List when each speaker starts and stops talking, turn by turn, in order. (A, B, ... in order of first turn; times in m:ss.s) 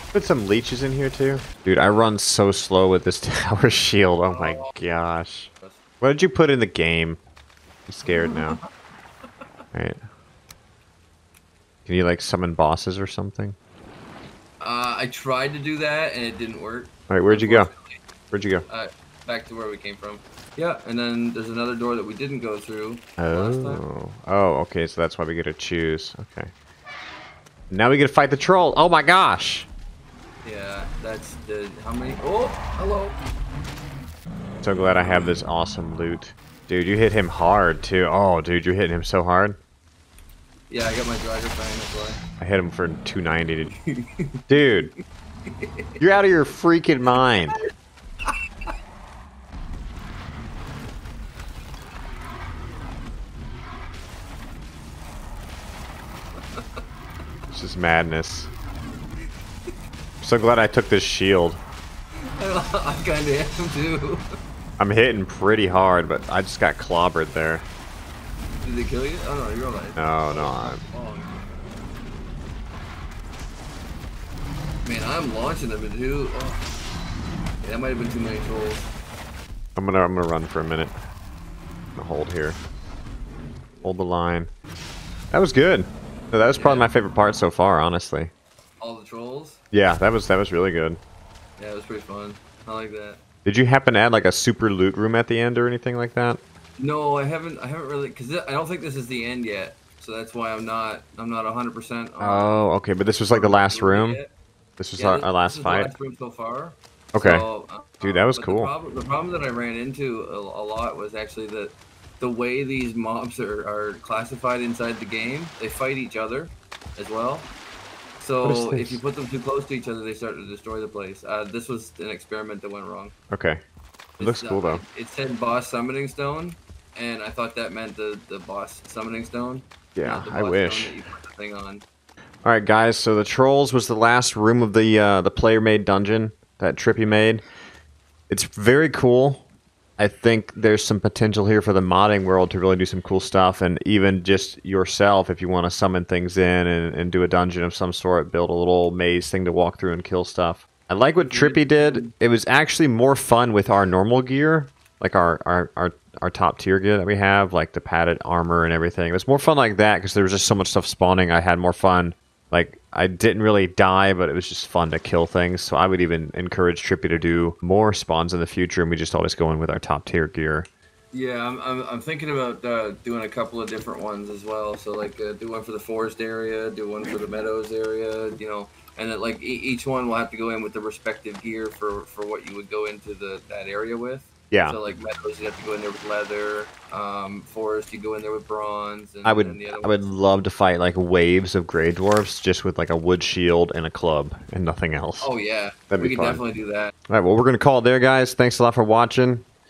0:00.1-0:07.2 A
0:04.3-0:04.7 B
0:07.9-0:08.6 A
0:08.1-0:08.7 B
0:09.7-0:10.0 A
0:11.9-0:13.6 A
0:14.6-0:18.0 B
0:17.1-0:17.7 A
0:18.3-0:18.6 A
0:18.7-0:23.8 B
0:23.2-0:26.5 A
0:27.7-0:29.7 A
0:30.4-0:33.2 B
0:34.6-0:39.6 A
0:40.7-0:42.2 B
0:42.4-0:43.7 A
0:43.7-0:44.4 B
0:44.5-0:44.9 A
0:45.5-0:46.2 B
0:46.0-0:47.6 A
0:47.3-0:47.7 B
0:48.3-0:48.7 B
0:56.4-0:56.8 B
0:57.5-0:58.5 A
1:00.2-1:01.6 A
1:02.4-1:04.2 B
1:04.8-1:07.7 A
1:08.6-1:11.4 B
1:10.0-1:10.8 A
1:14.8-1:16.7 B
1:17.6-1:18.9 B
1:19.8-1:20.9 A
1:22.0-1:22.6 A
1:23.7-1:24.0 B
1:23.8-1:24.5 A
1:25.3-1:28.3 A
1:26.6-1:26.9 B
1:28.8-1:29.6 B
1:29.7-1:31.0 A
1:31.6-1:33.2 B
1:33.4-1:36.4 A
1:36.8-1:42.6 B
1:42.2-1:44.2 A
1:43.3-1:44.3 B
1:44.8-1:45.9 A
1:45.0-1:57.5 B
1:47.1-1:47.4 A
1:48.0-1:48.7 A
1:58.2-2:03.1 B
1:58.4-1:59.0 A
2:03.3-2:03.6 A
2:04.2-2:11.8 B
2:04.2-2:04.8 A
2:10.0-2:10.9 A
2:12.4-2:17.4 A
2:18.3-2:19.4 A
2:20.0-2:50.7 A
2:31.2-2:32.1 B
2:51.1-3:10.1 B
3:04.5-3:04.8 A
3:09.2-3:15.3 A
3:15.2-3:16.9 B
3:15.9-3:16.4 A
3:17.1-3:19.4 A